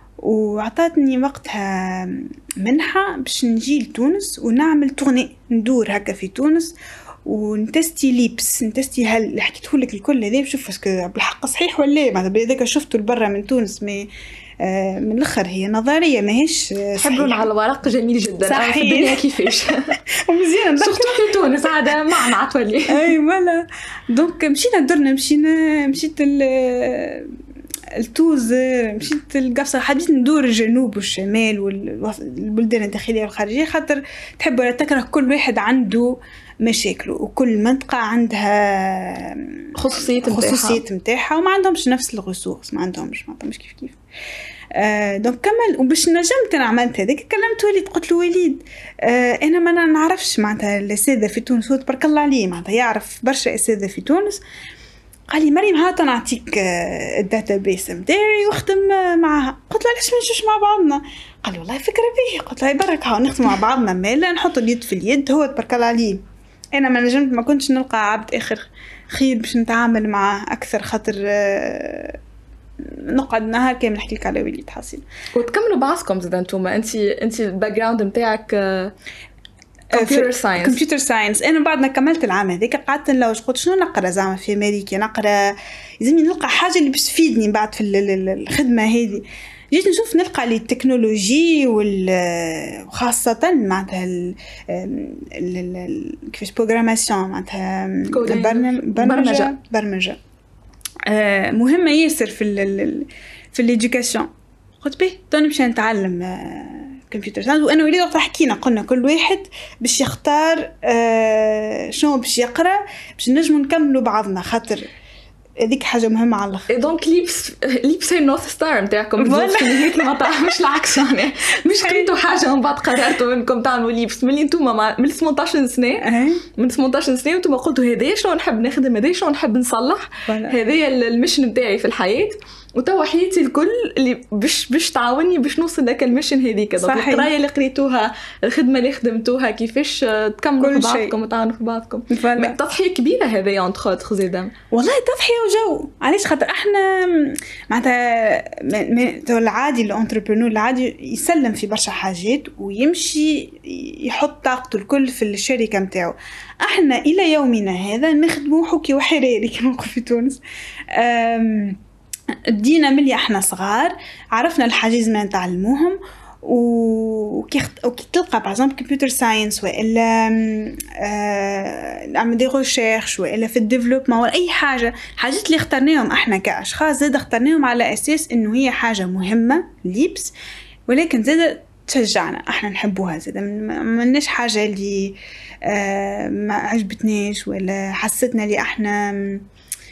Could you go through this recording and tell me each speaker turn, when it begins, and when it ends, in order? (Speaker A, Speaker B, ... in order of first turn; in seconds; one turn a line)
Speaker A: 0.2-14.1
Speaker A: 14.6-17.5
Speaker B: 17.0-20.0
Speaker A: 18.4-19.6
Speaker A: 20.1-21.3
Speaker B: 20.8-23.1
Speaker A: 22.9-27.4
Speaker A: 28.0-44.0
Speaker B: 39.8-40.8
Speaker A: 44.7-54.4
Speaker A: 55.3-66.2
Speaker A: 66.8-72.2
Speaker A: 72.8-75.0
Speaker B: 75.3-78.9
Speaker B: 79.9-80.8
Speaker A: 79.9-100.2
Speaker B: 98.1-99.5
Speaker A: 101.1-104.3
Speaker A: 104.8-114.9
Speaker A: 115.6-116.7
Speaker B: 116.7-144.5
Speaker A: 119.2-120.2
Speaker A: 121.7-122.1
Speaker A: 126.0-126.4
Speaker A: 130.3-130.6
Speaker A: 136.8-137.3
Speaker A: 140.6-141.1
Speaker A: 142.1-142.6
Speaker A: 144.7-160.4
Speaker A: 160.9-161.8
Speaker A: 162.5-180.3
Speaker A: 180.9-189.5